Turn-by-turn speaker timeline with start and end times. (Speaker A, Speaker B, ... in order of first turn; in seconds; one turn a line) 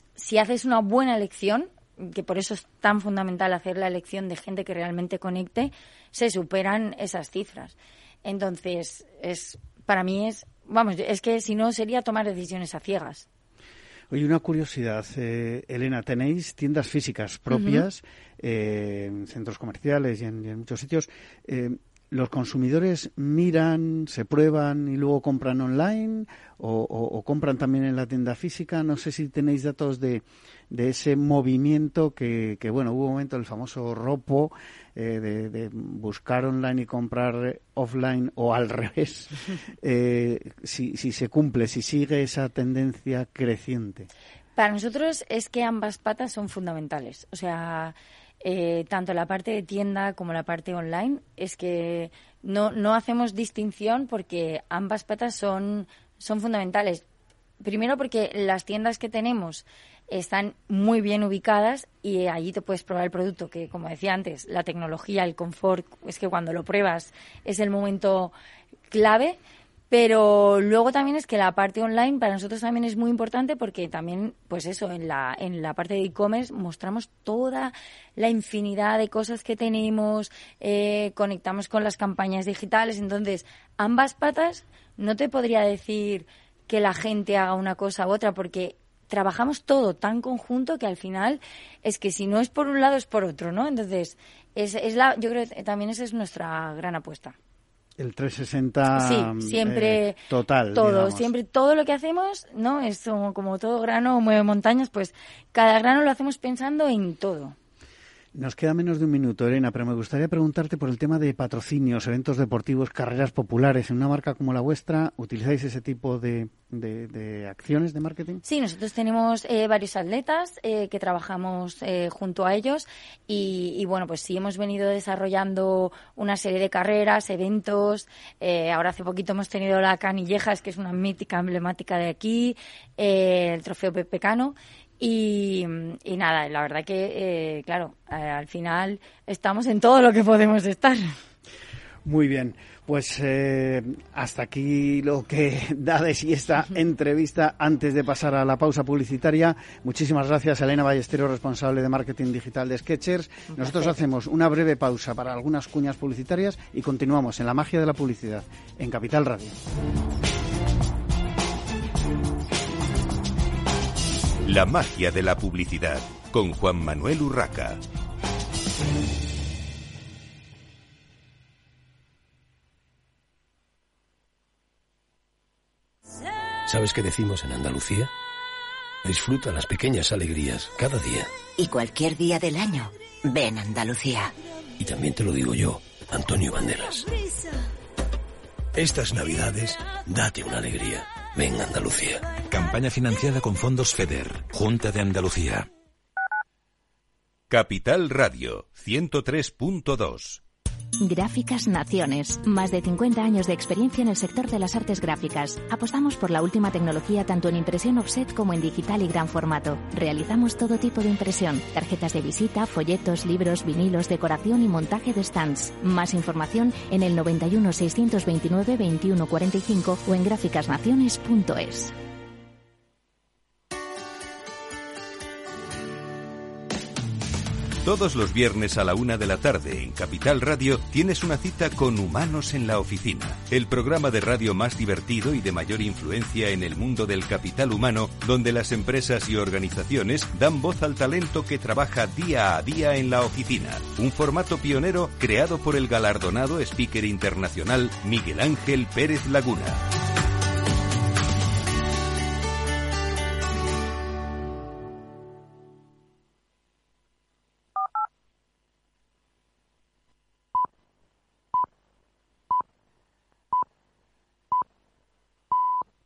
Speaker A: 0.1-13.3
Speaker B: 14.1-44.1
Speaker A: 17.5-17.8
Speaker A: 44.6-57.0
Speaker A: 57.6-68.3
Speaker A: 68.9-69.4
Speaker A: 69.9-97.4
Speaker B: 98.0-101.3
Speaker A: 98.9-100.2
Speaker A: 100.7-107.5
Speaker B: 108.3-118.4
Speaker A: 118.4-141.1
Speaker B: 142.1-159.6
Speaker C: 164.4-167.8
Speaker D: 176.7-178.1
Speaker D: 179.0-181.3
Speaker E: 181.6-184.3
Speaker D: 184.8-187.1
Speaker F: 188.8-189.8
Speaker D: 188.9-189.3
Speaker D: 189.9-192.2
Speaker F: 192.5-195.7
Speaker C: 197.5-200.4
Speaker G: 201.0-221.9
Speaker C: 227.8-249.8